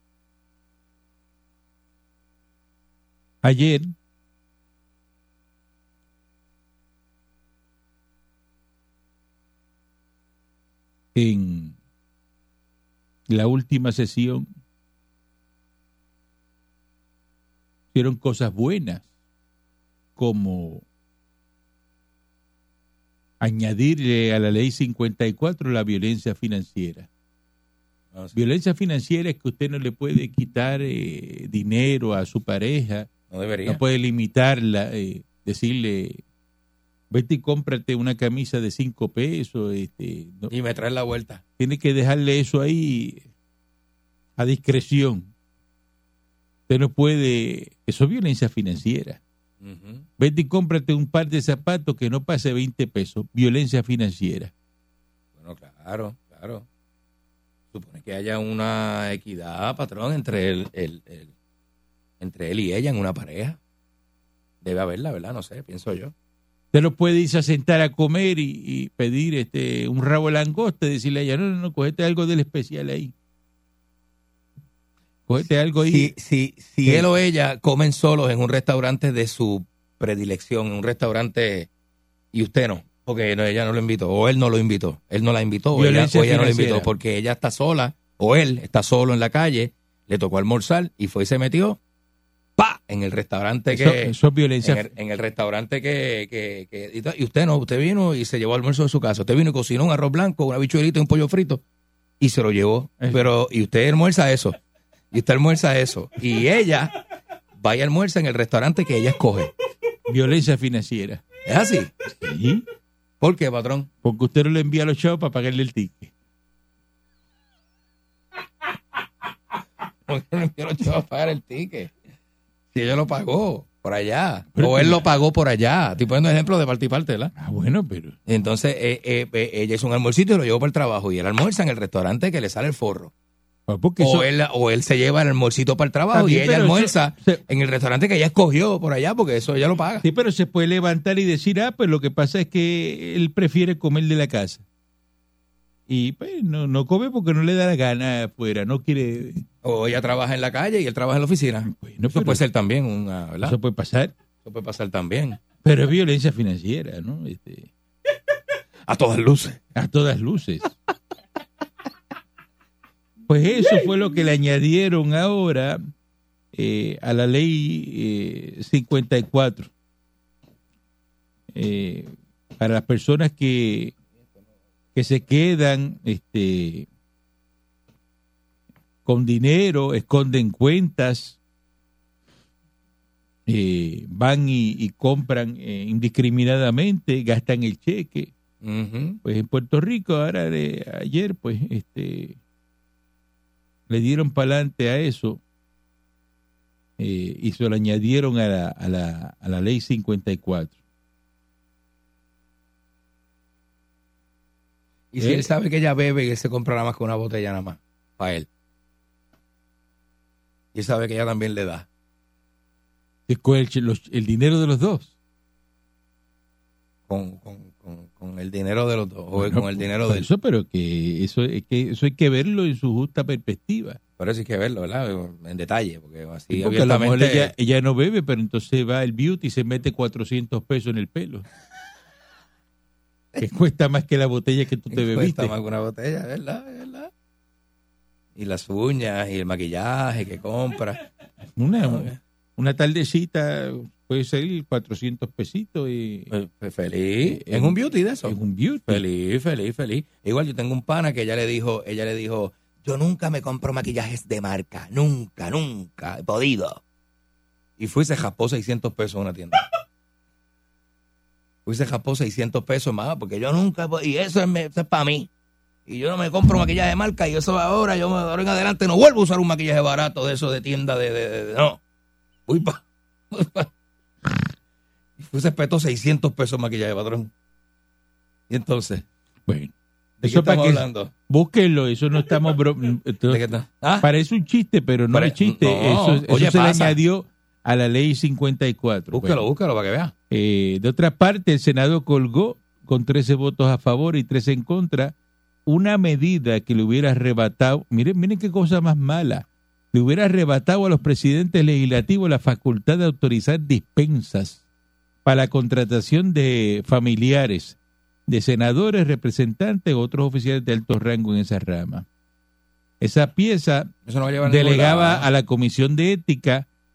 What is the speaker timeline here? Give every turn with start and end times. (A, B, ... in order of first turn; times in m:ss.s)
0:03.4-0:03.9 A
0:11.1-0:11.7 A
0:13.3-0:14.5 A
0:17.9-0:19.0 A
0:20.2-0:20.8 A
0:23.4-0:27.1 A
0:28.3-0:33.1 A
0:33.3-0:33.8 B
0:33.6-0:36.2 A
0:37.1-0:40.5 A
0:40.5-0:41.4 B
0:41.6-0:43.2 A
0:44.4-0:45.3 A
0:46.7-0:49.2 A
0:49.6-0:50.0 B
0:50.2-0:54.5 A
0:55.4-0:56.6 B
0:57.7-1:01.3 B
1:02.2-1:03.6 B
1:04.6-1:06.1 B
1:06.7-1:13.1 A
1:15.3-1:17.1 A
1:15.8-1:21.7 B
1:22.3-1:31.8 B
1:25.7-1:26.9 A
1:32.6-1:41.6 B
1:33.7-1:34.9 A
1:42.2-1:44.6 B
1:43.0-1:43.3 A
1:45.1-1:46.9 B
1:47.6-1:49.5 B
1:50.1-1:51.2 A
1:51.4-1:51.9 B
1:52.0-1:52.6 A
1:53.2-1:53.9 B
1:54.0-1:56.1 A
2:00.1-2:01.9 B
2:02.7-2:07.3 B
2:04.5-2:05.0 A
2:07.4-2:08.2 A
2:08.3-2:13.1 B
2:13.7-2:14.3 A
2:14.0-2:20.0 B
2:16.1-2:17.4 A
2:20.0-2:24.6 A
2:25.9-2:29.4 A
2:29.6-2:33.6 B
2:31.7-2:32.4 A
2:33.4-2:34.1 A
2:34.4-2:35.4 B
2:35.6-2:37.7 A
2:38.9-2:39.6 B
2:39.7-2:40.8 A
2:43.3-2:45.8 A
2:46.5-2:49.7 A
2:51.5-2:53.9 A
2:54.9-2:56.9 A
2:59.0-3:01.4 A
3:03.4-3:08.3 A
3:08.6-3:09.2 B
3:09.2-3:12.4 A
3:13.9-3:15.4 A
3:17.0-3:20.8 A
3:25.1-3:28.5 B
3:25.2-3:25.5 A
3:30.7-3:31.8 B
3:33.3-3:35.1 A
3:37.1-3:40.3 B
3:39.4-3:44.0 A
3:44.2-3:47.5 B
3:46.5-3:51.4 A
3:53.4-3:55.5 A
3:54.9-3:57.1 B
3:58.4-4:01.0 B
4:01.6-4:06.3 A
4:01.9-4:02.2 B
4:06.3-4:16.8 B
4:07.2-4:09.0 A
4:17.8-4:19.6 B
4:21.6-4:25.3 B
4:25.9-4:31.8 B
4:32.5-4:33.7 B
4:35.2-4:37.3 B
4:38.5-4:39.0 B
4:39.5-4:49.4 A
4:40.2-4:41.1 B
4:43.3-4:44.1 B
4:45.1-4:47.0 B
4:49.1-4:50.1 B
4:50.3-4:55.1 A
4:55.6-5:04.6 A
5:05.2-5:12.0 A
5:13.0-5:13.9 A
5:14.0-5:15.3 B
5:14.4-5:16.6 A